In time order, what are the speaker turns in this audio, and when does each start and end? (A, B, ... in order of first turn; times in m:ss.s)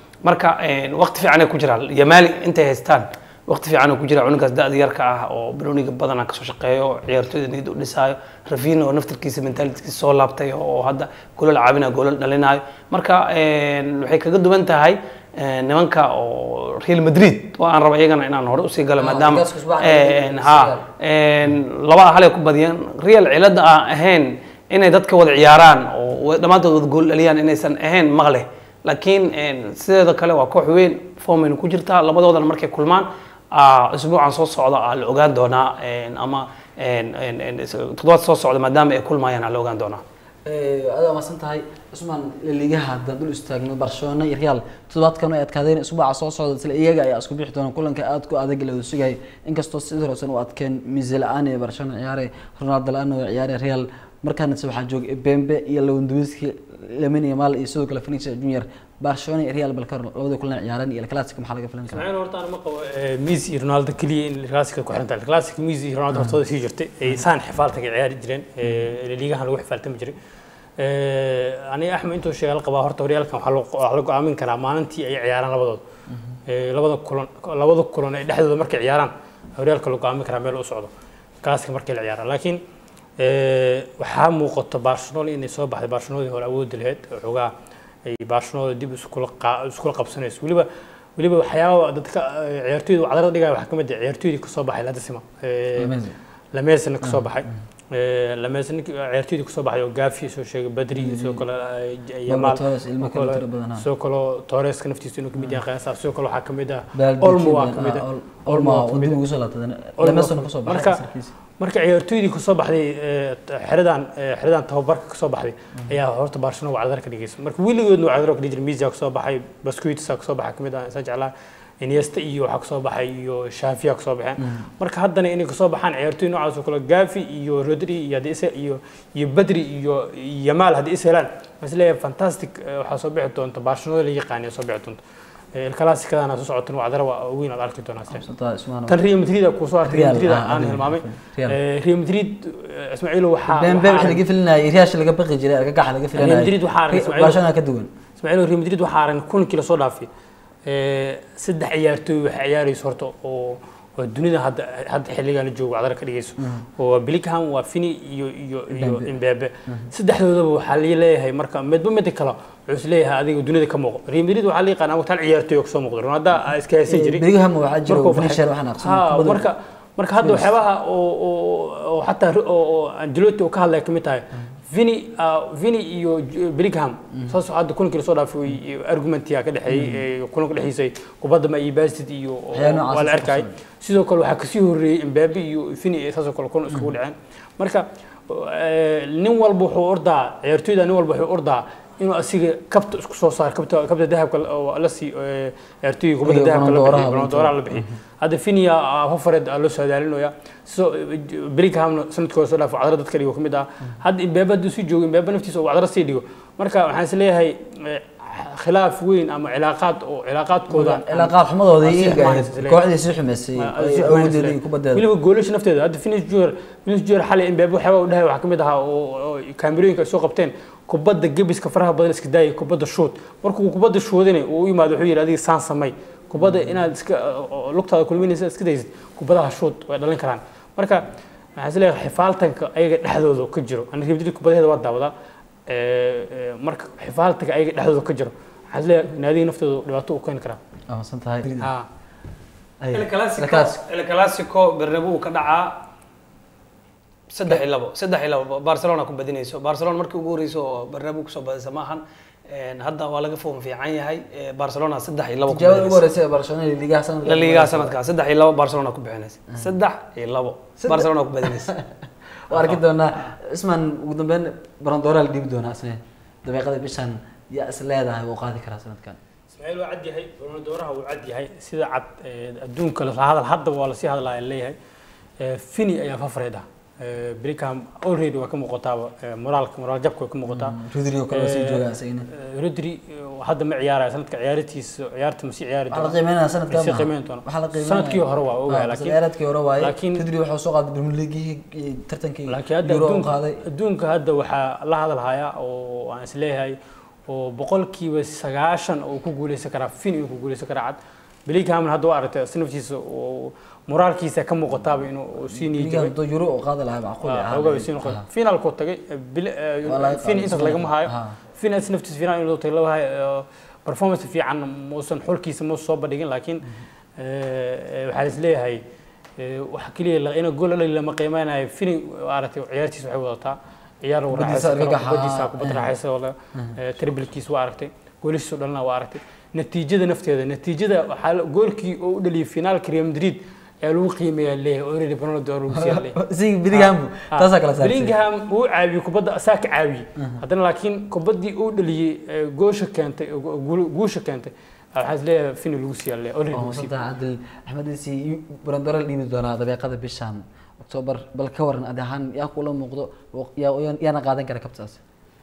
0:00.2-0:40.0 A
0:19.0-0:20.9 B
0:40.5-1:02.1 B
1:01.9-1:10.2 C
1:06.1-1:06.4 B
1:08.6-1:08.9 B
1:10.8-1:15.8 C
1:16.1-1:16.4 B
1:16.5-1:20.9 C
1:21.4-1:22.6 C
1:23.2-1:27.5 C
1:28.1-1:36.0 C
1:35.8-1:36.2 B
1:36.5-1:49.2 C
1:37.0-1:37.5 B
1:40.9-1:41.4 B
1:42.3-1:43.9 B
1:46.9-1:51.3 B
1:50.0-1:51.0 C
1:51.6-2:15.0 C
2:04.4-2:04.6 B
2:15.6-2:18.2 C
2:18.1-2:19.0 B
2:18.9-2:24.2 C
2:19.8-2:21.6 B
2:23.5-2:27.9 B
2:26.2-2:27.4 C
2:28.2-2:30.1 C
2:30.7-2:47.2 C
2:36.4-2:36.7 B
2:38.7-2:39.1 B
2:46.9-2:49.5 B
2:47.9-3:32.8 C
2:50.2-2:50.5 B
2:59.7-3:00.0 B
3:02.5-3:03.5 B
3:16.2-3:17.9 B
3:30.7-3:35.0 B
3:33.6-3:51.0 C
3:46.4-3:46.7 B
3:51.6-3:55.1 C
3:55.7-4:00.6 C
4:00.9-4:01.7 B
4:02.8-4:03.8 B
4:02.9-4:05.9 A
4:07.3-4:16.1 A
4:15.5-4:18.0 B
4:17.3-4:21.7 A
4:20.8-4:21.9 B
4:22.5-4:29.2 B
4:29.5-4:34.8 C
4:35.4-4:40.8 C
4:40.5-4:42.3 B
4:41.3-4:46.2 C
4:45.9-4:53.6 B
4:46.7-4:49.2 C
4:49.8-4:50.2 C
4:52.5-4:56.8 C
4:57.3-5:06.1 C
5:05.5-5:08.3 B
5:07.2-5:18.8 C
5:09.9-5:11.4 B
5:19.4-5:36.1 C
5:24.3-5:25.9 B
5:35.7-5:38.1 B
5:36.7-5:46.9 C
5:40.2-5:40.4 B
5:46.5-5:55.0 B